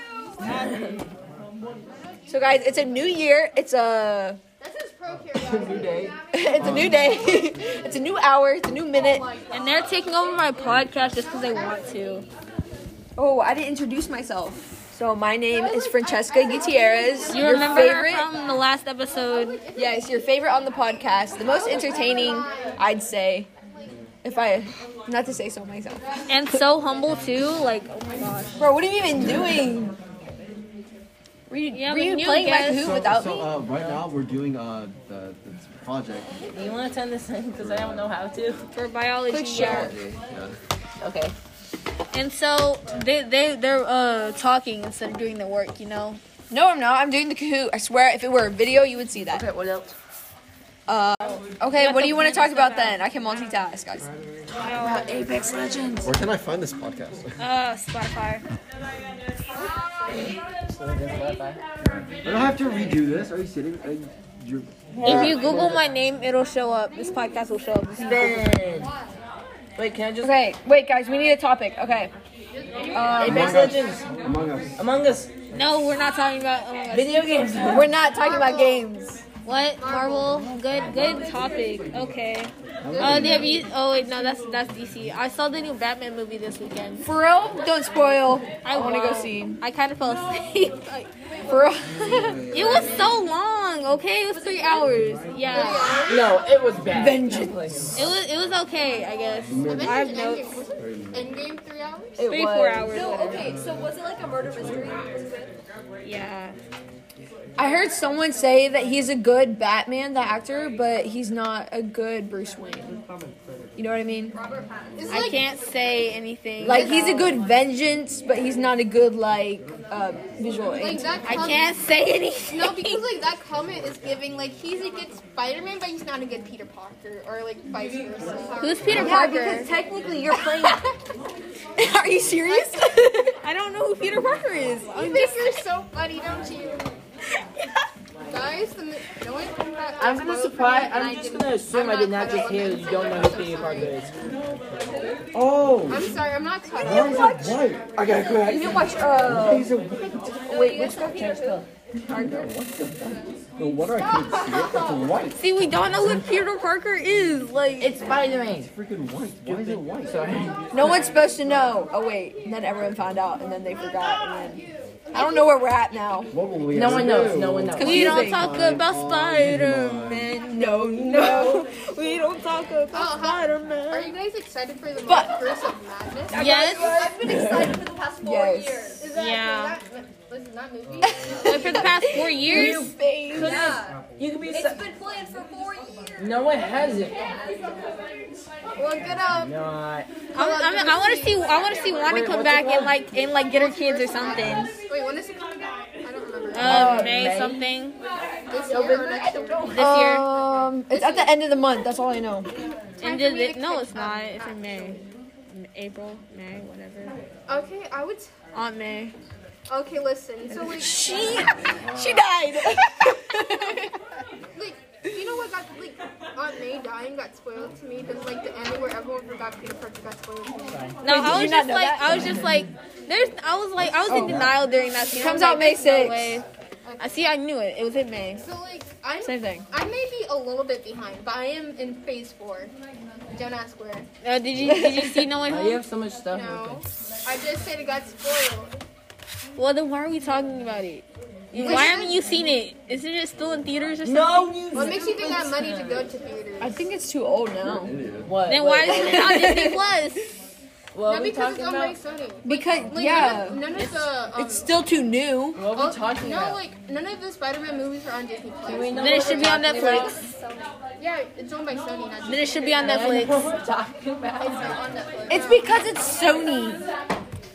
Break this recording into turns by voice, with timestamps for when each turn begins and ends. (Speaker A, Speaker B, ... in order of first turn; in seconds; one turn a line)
Speaker A: 0.4-1.0
Speaker B: 2.3-4.4
Speaker C: 4.6-7.2
Speaker B: 6.3-9.2
Speaker D: 6.6-7.0
Speaker C: 8.9-9.9
Speaker E: 9.5-12.2
Speaker C: 11.2-12.2
Speaker B: 13.2-18.3
Speaker C: 15.5-18.0
Speaker E: 17.3-19.6
Speaker C: 19.1-20.1
Speaker B: 19.7-23.5
Speaker C: 21.4-22.9
Speaker B: 24.2-26.6
Speaker E: 26.3-28.6
Speaker B: 28.6-29.9
Speaker B: 31.5-33.5
Speaker E: 31.7-32.9
Speaker D: 32.7-36.3
Speaker A: 33.7-34.0
Speaker A: 36.5-38.6
Speaker D: 37.6-38.0
Speaker E: 38.7-40.0
Speaker B: 39.3-40.0
Speaker D: 39.5-40.5
Speaker A: 41.0-41.3
Speaker E: 42.1-46.2
Speaker B: 46.5-49.5
Speaker A: 49.3-49.9
Speaker B: 50.9-54.1
Speaker E: 51.7-53.0
Speaker E: 54.6-55.2
Speaker A: 54.6-56.1
Speaker D: 56.0-57.3
Speaker E: 57.4-58.4
Speaker A: 60.1-61.6
Speaker D: 62.2-65.7
Speaker A: 65.0-65.8
Speaker E: 65.0-68.5
Speaker A: 68.0-68.9
Speaker A: 69.8-70.3
Speaker B: 70.2-72.1
Speaker C: 72.6-74.0
Speaker B: 72.9-73.8
Speaker A: 73.2-74.1
Speaker D: 73.2-74.7
Speaker A: 74.8-75.3
Speaker E: 75.5-77.3
Speaker A: 76.9-77.9
Speaker B: 77.7-79.2
Speaker C: 78.0-78.8
Speaker E: 79.4-87.0
Speaker C: 79.8-80.5
Speaker D: 82.8-83.6
Speaker C: 83.0-83.5
Speaker B: 87.0-89.6
Speaker E: 88.6-91.1
Speaker B: 91.5-92.4
Speaker D: 92.1-93.1
Speaker E: 92.5-96.2
Speaker F: 94.3-94.9
Speaker C: 95.4-96.5
Speaker A: 96.0-97.8
Speaker B: 96.9-98.1
Speaker E: 98.0-100.5
Speaker D: 99.5-100.0
Speaker C: 99.6-102.2
Speaker D: 100.8-101.2
Speaker B: 102.2-103.1
Speaker E: 102.2-103.4
Speaker F: 102.9-105.5
Speaker E: 106.0-106.5
Speaker B: 107.6-113.0
Speaker B: 113.8-114.3
Speaker F: 114.3-115.2
Speaker C: 115.0-115.6
Speaker E: 115.1-117.3
Speaker B: 116.6-121.1
Speaker C: 116.7-117.3
Speaker C: 120.7-121.7
Speaker E: 121.2-123.0
Speaker C: 122.5-129.3
Speaker E: 128.6-129.7
Speaker B: 128.9-130.9
Speaker B: 131.8-133.3
Speaker E: 133.4-135.5
Speaker C: 134.9-136.8
Speaker C: 138.3-144.1
Speaker A: 140.0-144.1
Speaker D: 145.3-146.1
Speaker C: 145.9-147.6
Speaker D: 146.8-150.3
Speaker B: 146.9-147.6
Speaker B: 148.4-149.7
Speaker F: 148.6-149.2
Speaker F: 150.3-151.6
Speaker B: 150.4-151.4
Speaker A: 150.6-151.7
Speaker B: 152.1-153.2
Speaker D: 153.6-155.4
Speaker C: 154.0-154.7
Speaker F: 154.6-155.0
Speaker E: 155.3-157.9
Speaker A: 157.8-158.7
Speaker D: 158.6-160.2
Speaker A: 159.4-161.0
Speaker B: 160.7-164.6
Speaker C: 165.1-165.5
Speaker B: 165.1-166.3
Speaker D: 166.3-170.3
Speaker A: 166.7-168.1
Speaker B: 167.8-168.5
Speaker E: 167.8-174.1
Speaker B: 170.5-171.6
Speaker C: 172.9-176.4
Speaker B: 175.1-175.4
Speaker E: 176.3-177.2
Speaker F: 176.3-179.1
Speaker B: 176.3-177.0
Speaker A: 177.2-177.8
Speaker B: 178.2-178.9
Speaker C: 179.0-182.1
Speaker E: 179.1-179.8
Speaker B: 181.1-183.6
Speaker E: 181.4-182.9
Speaker A: 182.4-184.8
Speaker F: 183.3-184.0
Speaker F: 184.5-186.3
Speaker A: 186.2-187.2
Speaker C: 188.8-189.6
Speaker A: 189.4-190.2
Speaker C: 190.3-191.5
Speaker E: 190.3-194.7
Speaker A: 192.1-193.0
Speaker C: 193.5-197.1
Speaker E: 196.5-198.0
Speaker A: 196.6-197.7
Speaker B: 196.6-197.2
Speaker C: 198.5-201.3
Speaker A: 198.7-199.9
Speaker B: 199.7-202.5
Speaker E: 199.7-200.3
Speaker C: 203.0-205.0
Speaker E: 203.0-207.1
Speaker C: 207.5-208.3
Speaker E: 208.5-209.1
Speaker C: 209.7-211.1
Speaker B: 210.5-213.9
Speaker C: 214.5-220.8
Speaker A: 220.7-220.9
Speaker E: 221.0-226.4
Speaker B: 221.0-222.4
Speaker A: 222.1-222.5
Speaker B: 224.1-224.5
Speaker B: 225.1-226.4
Speaker C: 226.8-227.1
Speaker E: 227.0-228.4
Speaker C: 228.4-232.7
Speaker B: 229.2-229.7
Speaker C: 233.3-234.1
Speaker E: 234.2-235.8
Speaker B: 234.7-235.2
Speaker A: 235.5-236.8
Speaker C: 236.3-238.7
Speaker E: 239.6-244.7
Speaker C: 241.6-242.4
Speaker A: 244.0-246.0
Speaker C: 244.7-246.7
Speaker B: 246.6-247.9
Speaker D: 247.6-248.3
Speaker A: 248.2-249.6
Speaker E: 248.4-250.3
Speaker B: 249.0-249.8
Speaker A: 250.9-251.9
Speaker C: 251.1-254.7
Speaker B: 252.4-253.7
Speaker E: 253.7-254.0
Speaker B: 254.3-255.6
Speaker A: 255.5-256.6
Speaker C: 255.7-259.4
Speaker A: 258.6-260.1
Speaker E: 258.9-260.2
Speaker F: 259.4-260.7
Speaker C: 261.0-263.1
Speaker E: 262.2-263.4
Speaker A: 262.8-264.8
Speaker C: 264.4-265.4
Speaker F: 264.6-265.8
Speaker B: 265.3-266.8